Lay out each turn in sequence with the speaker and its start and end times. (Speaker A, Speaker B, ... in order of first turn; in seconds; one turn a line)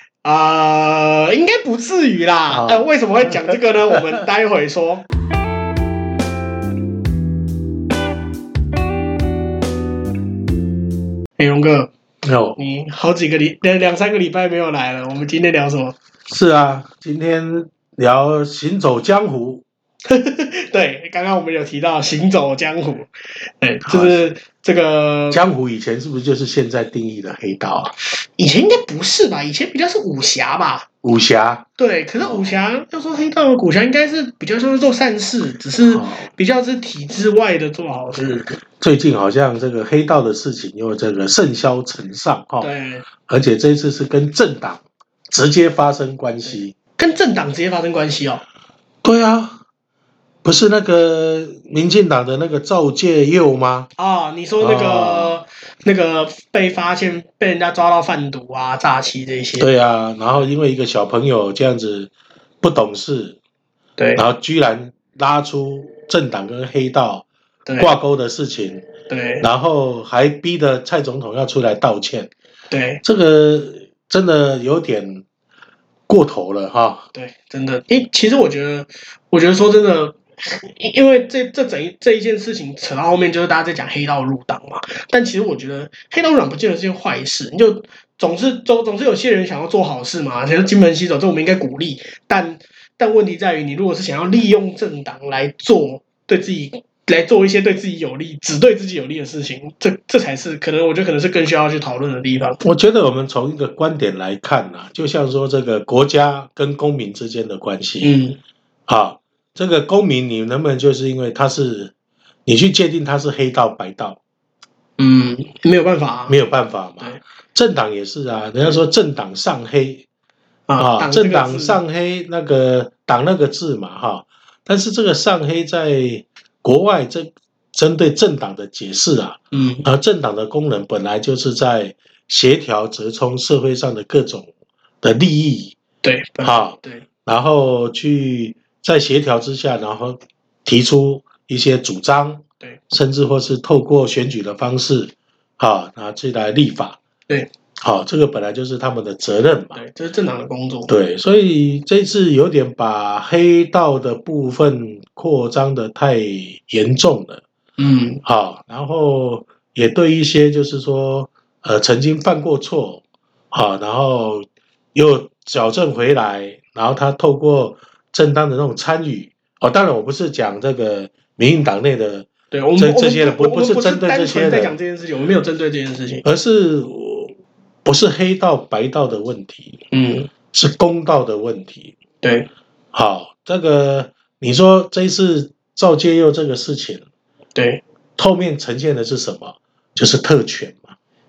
Speaker A: 0.2-5.0
Speaker B: 2.5-3.6
Speaker A: 11.4-11.9
Speaker B: 12.2-12.6
Speaker A: 12.6-16.0
Speaker B: 16.3-19.6
Speaker A: 20.1-23.1
Speaker A: 23.6-25.4
Speaker B: 23.9-24.2
Speaker B: 25.3-27.9
Speaker A: 28.4-30.9
Speaker B: 31.0-31.6
Speaker A: 31.8-38.6
Speaker B: 35.8-36.3
Speaker B: 38.8-42.7
Speaker A: 42.6-43.1
Speaker B: 43.2-46.8
Speaker A: 46.5-48.4
Speaker B: 49.0-49.6
Speaker B: 50.4-53.9
Speaker A: 54.0-59.7
Speaker B: 54.6-55.4
Speaker B: 59.6-63.4
Speaker A: 64.0-64.2
Speaker B: 64.2-67.3
Speaker A: 67.7-67.9
Speaker B: 67.8-68.9
Speaker A: 69.1-69.5
Speaker B: 69.4-72.3
Speaker A: 72.7-73.0
Speaker B: 73.0-75.2
Speaker B: 76.1-77.1
Speaker A: 77.1-102.6
Speaker B: 102.6-108.2
Speaker A: 108.0-108.4
Speaker B: 108.9-111.9
Speaker B: 112.5-114.2
Speaker A: 115.0-116.4
Speaker B: 116.3-120.1
Speaker A: 120.7-121.8
Speaker B: 120.8-134.5
Speaker A: 129.5-129.9
Speaker B: 135.0-135.8
Speaker A: 136.0-137.1
Speaker B: 136.4-147.0
Speaker B: 147.8-149.8
Speaker A: 149.7-150.9
Speaker B: 150.9-157.4
Speaker A: 157.8-158.2
Speaker B: 158.2-174.8
Speaker A: 172.5-176.2
Speaker B: 176.2-179.8
Speaker A: 179.9-180.3
Speaker B: 180.5-182.0
Speaker A: 182.2-182.5
Speaker B: 182.9-187.0
Speaker A: 187.6-187.8
Speaker B: 188.2-190.9